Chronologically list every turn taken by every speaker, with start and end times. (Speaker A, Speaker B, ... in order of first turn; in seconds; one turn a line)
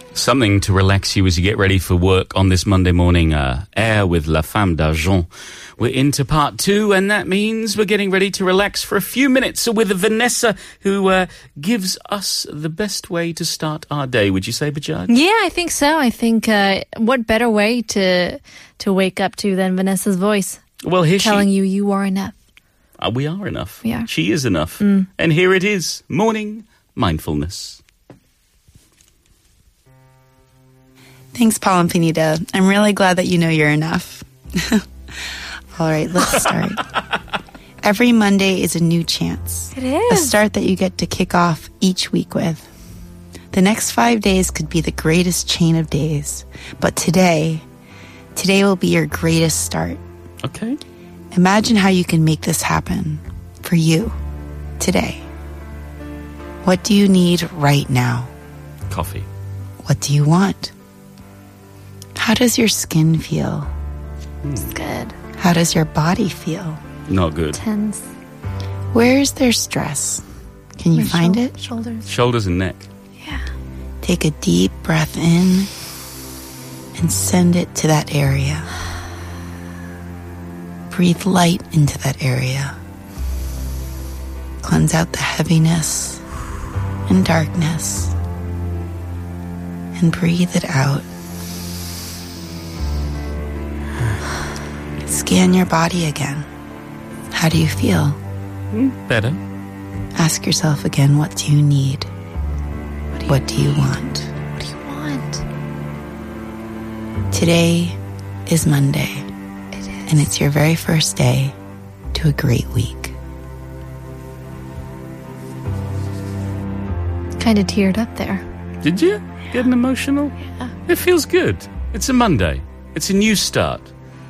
Speaker A: 0.1-15.1
Speaker B: 15.1-20.6
Speaker A: 20.8-21.5
Speaker B: 21.2-22.3
Speaker A: 23.0-27.8
Speaker B: 24.8-25.1
Speaker C: 31.3-34.8
Speaker C: 35.7-36.9
Speaker C: 37.8-42.7
Speaker B: 39.7-40.3
Speaker C: 43.5-47.6
Speaker C: 48.3-50.0
Speaker A: 50.4-50.8
Speaker C: 51.3-54.1
Speaker C: 54.8-55.2
Speaker C: 56.6-58.3
Speaker A: 58.9-59.3
Speaker C: 59.8-60.7
Speaker C: 62.2-63.7
Speaker A: 64.4-64.7
Speaker B: 64.7-65.1
Speaker C: 65.4-66.8
Speaker A: 67.1-67.6
Speaker B: 67.5-68.1
Speaker C: 68.9-70.2
Speaker C: 70.8-71.6
Speaker B: 70.9-72.0
Speaker A: 72.0-72.9
Speaker C: 74.0-75.7
Speaker C: 77.0-78.7
Speaker C: 80.9-82.8
Speaker C: 84.6-86.2
Speaker C: 87.1-88.1
Speaker C: 90.0-91.0
Speaker C: 95.0-96.5
Speaker C: 97.3-98.2
Speaker A: 98.7-99.4
Speaker C: 100.2-102.1
Speaker B: 103.1-103.9
Speaker C: 103.3-104.3
Speaker B: 104.6-105.4
Speaker C: 107.3-109.3
Speaker B: 109.7-110.1
Speaker C: 110.1-111.5
Speaker C: 112.1-113.1
Speaker B: 117.4-118.4
Speaker A: 118.8-123.9